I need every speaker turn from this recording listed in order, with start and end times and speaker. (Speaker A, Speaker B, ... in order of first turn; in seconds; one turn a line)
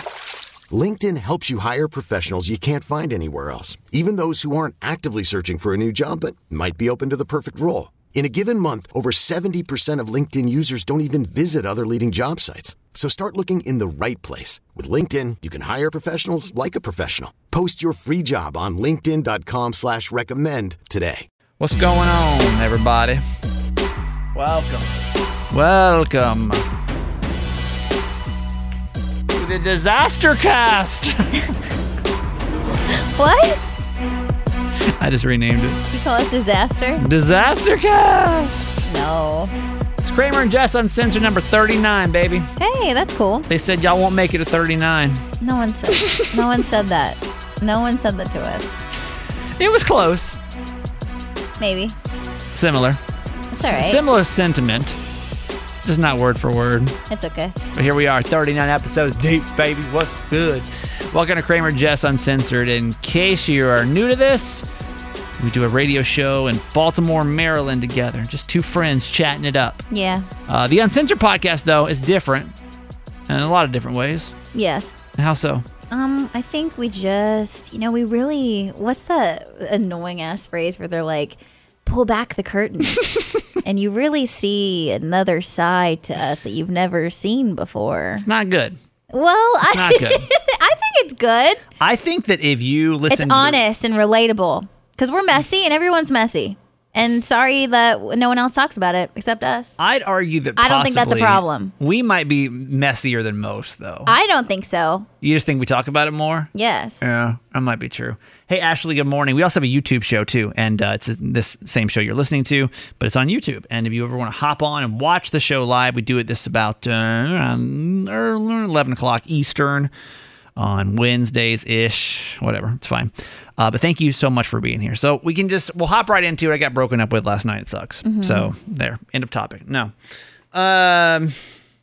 Speaker A: 0.7-21.3
Speaker B: 21.6-23.2
Speaker B: 24.3-24.9
Speaker B: 25.5-26.6
Speaker B: 29.3-31.4
Speaker C: 33.0-33.7
Speaker B: 35.0-35.8
Speaker C: 35.9-37.0
Speaker B: 37.0-38.9
Speaker C: 38.9-39.5
Speaker B: 40.0-42.5
Speaker C: 42.6-43.5
Speaker B: 43.5-45.2
Speaker C: 45.4-48.8
Speaker B: 45.9-46.2
Speaker B: 49.6-50.4
Speaker C: 51.6-52.0
Speaker B: 52.5-53.0
Speaker C: 53.5-54.0
Speaker B: 53.5-55.0
Speaker B: 55.8-57.0
Speaker C: 57.1-57.5
Speaker B: 57.7-64.6
Speaker B: 65.4-69.8
Speaker C: 69.9-70.3
Speaker B: 70.5-72.5
Speaker B: 73.3-74.3
Speaker C: 74.5-74.9
Speaker B: 75.2-75.6
Speaker C: 75.9-83.0
Speaker C: 83.6-88.2
Speaker B: 88.2-88.8
Speaker C: 89.1-91.6
Speaker B: 89.7-90.3
Speaker B: 91.8-93.6
Speaker C: 93.1-99.7
Speaker B: 99.8-104.1
Speaker C: 100.6-101.7
Speaker C: 104.0-105.1
Speaker B: 105.2-106.5
Speaker C: 106.5-107.0
Speaker B: 107.0-119.9
Speaker B: 120.6-129.9
Speaker C: 128.0-128.5
Speaker B: 130.5-131.4